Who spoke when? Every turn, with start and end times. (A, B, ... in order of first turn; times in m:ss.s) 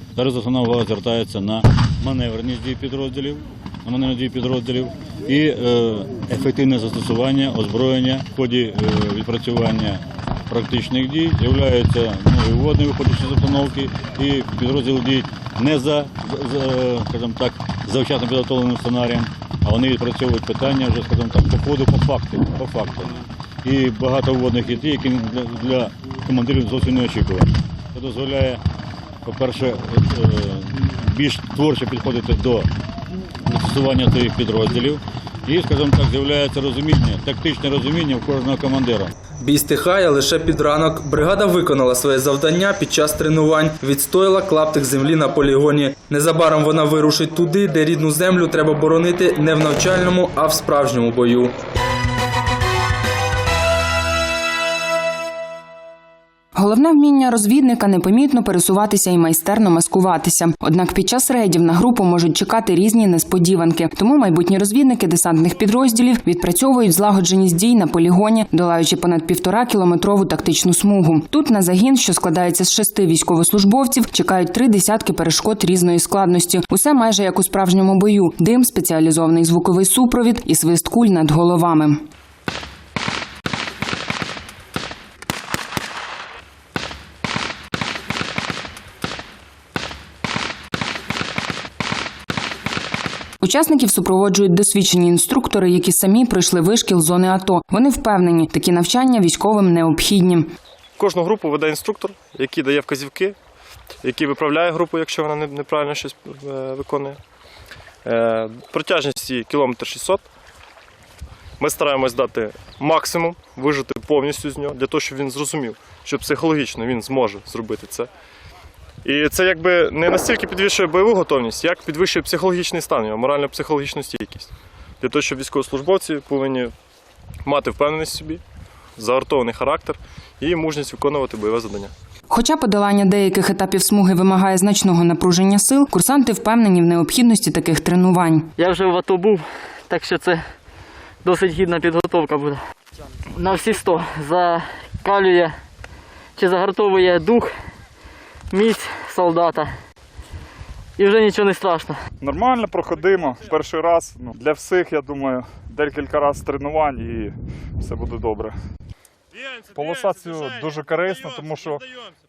0:00.2-0:28.6 A
0:29.3-0:32.7 A
0:33.5-0:39.1 A
0:39.4-0:51.5 B
0:56.6-1:22.0 C
1:33.4-1:40.5 C
1:41.0-1:43.4 D
1:44.0-1:47.2 D
1:48.0-1:50.2 D
1:51.6-1:58.1 D
1:59.0-2:06.7 D
2:07.4-2:08.4 D
2:09.0-2:11.9 D
2:12.3-2:18.5 C
2:18.6-2:20.4 E
2:21.2-2:22.6 E
2:23.3-2:25.6 E
2:26.4-2:27.5 E
2:28.5-2:29.7 E
2:31.0-2:32.0 E
2:32.2-2:38.6 F
2:39.7-2:41.8 F